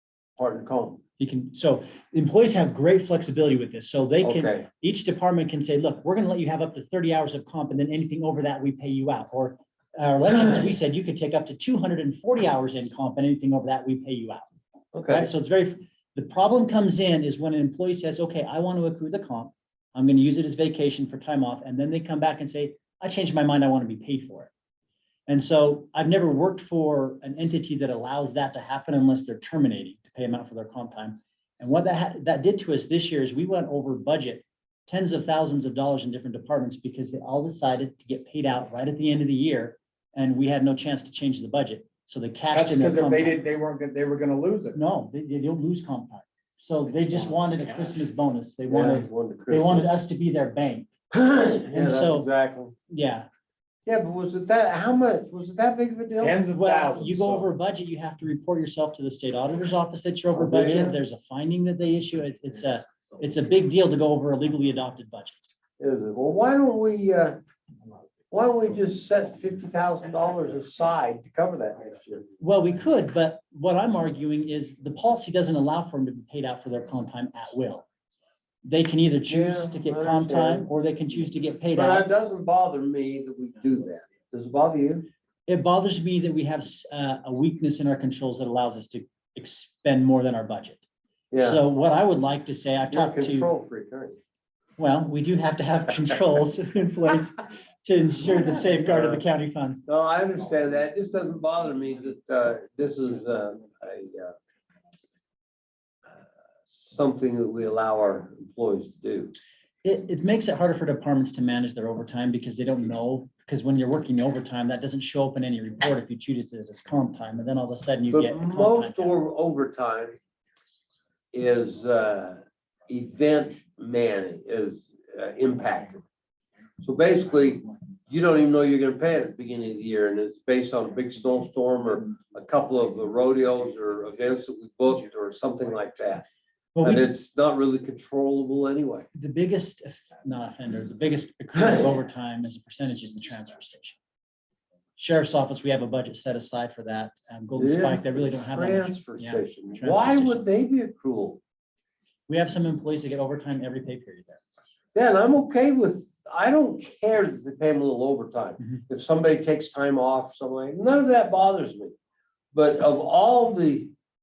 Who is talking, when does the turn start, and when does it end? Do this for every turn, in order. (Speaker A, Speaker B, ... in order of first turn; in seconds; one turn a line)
Speaker A: 0.4-1.0
Speaker B: 1.2-14.5
Speaker A: 4.2-4.7
Speaker A: 14.9-15.3
Speaker B: 15.1-24.5
Speaker B: 25.3-43.4
Speaker C: 42.5-44.8
Speaker B: 44.7-50.9
Speaker A: 48.7-49.9
Speaker A: 51.1-52.7
Speaker B: 51.7-52.3
Speaker B: 52.9-53.3
Speaker A: 53.9-56.4
Speaker C: 56.2-57.5
Speaker B: 56.5-65.4
Speaker A: 60.4-61.0
Speaker A: 65.8-67.4
Speaker A: 68.3-72.3
Speaker B: 72.4-77.8
Speaker B: 78.6-82.0
Speaker A: 79.3-80.7
Speaker A: 81.7-85.1
Speaker B: 85.5-90.8
Speaker A: 91.3-91.6
Speaker B: 91.4-93.5
Speaker A: 92.9-94.2
Speaker B: 94.8-99.8
Speaker A: 98.9-99.2
Speaker A: 99.8-104.3
Speaker A: 106.7-109.3
Speaker B: 109.8-119.2
Speaker A: 118.1-120.2
Speaker A: 121.3-126.0
Speaker A: 126.8-136.2
Speaker B: 136.7-137.1
Speaker A: 136.8-139.1
Speaker B: 139.1-144.0
Speaker B: 145.0-150.4
Speaker A: 147.6-151.4
Speaker B: 152.3-154.4
Speaker A: 154.9-161.9
Speaker A: 162.5-163.9